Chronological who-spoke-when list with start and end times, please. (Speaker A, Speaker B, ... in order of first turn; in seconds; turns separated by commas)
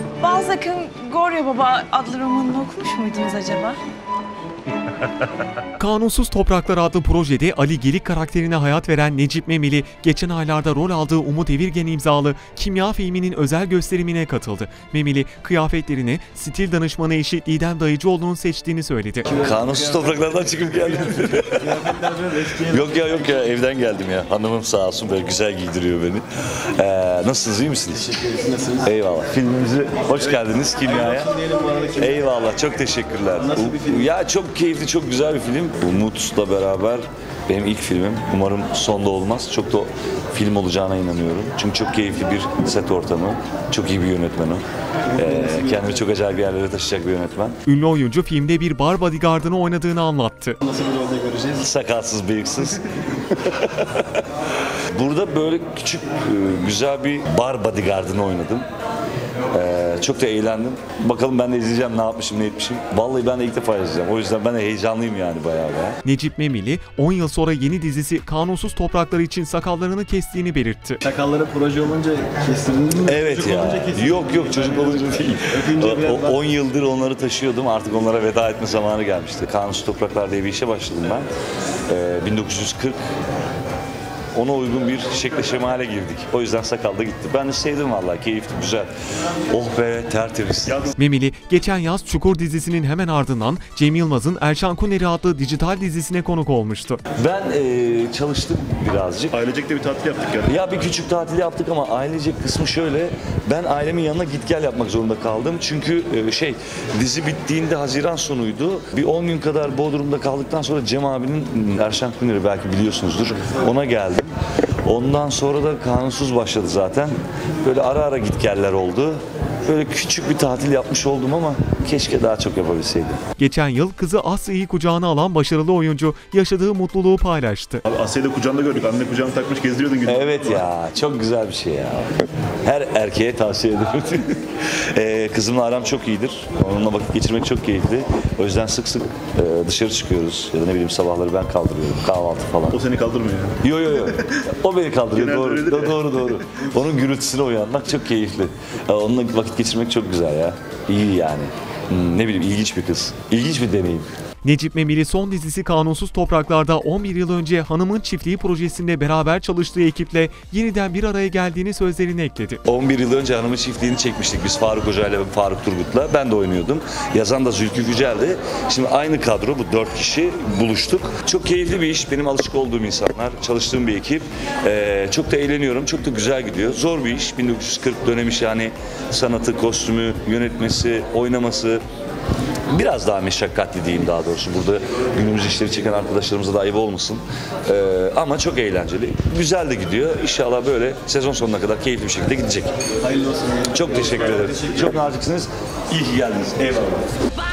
Speaker A: 0.2-3.8, Speaker B: 5.8-19.3, Speaker C: 19.4-21.9, Speaker D: 21.6-23.2, Speaker C: 22.6-28.1, Speaker D: 28.3-28.6, Speaker C: 28.8-31.4, Speaker D: 31.4-31.9, Speaker C: 32.0-47.6, Speaker B: 47.7-50.6, Speaker D: 50.7-51.5, Speaker C: 51.6-52.8, Speaker C: 53.5-54.0, Speaker C: 54.9-58.7, Speaker C: 59.5-66.0, Speaker B: 66.0-71.0, Speaker D: 71.1-74.8, Speaker C: 73.0-81.3, Speaker D: 75.7-76.1, Speaker C: 81.9-83.0, Speaker C: 84.3-88.9, Speaker C: 89.5-90.9, Speaker B: 91.0-97.0, Speaker C: 97.2-99.4, Speaker E: 99.3-100.8, Speaker C: 100.5-114.3, Speaker C: 114.8-123.2, Speaker B: 123.4-127.8, Speaker E: 127.8-130.7, Speaker C: 130.1-142.8, Speaker E: 142.7-143.6, Speaker C: 143.6-154.1, Speaker E: 145.2-146.1, Speaker B: 154.4-162.6, Speaker C: 162.7-181.8, Speaker C: 182.7-192.7, Speaker D: 193.0-194.7, Speaker C: 193.7-197.1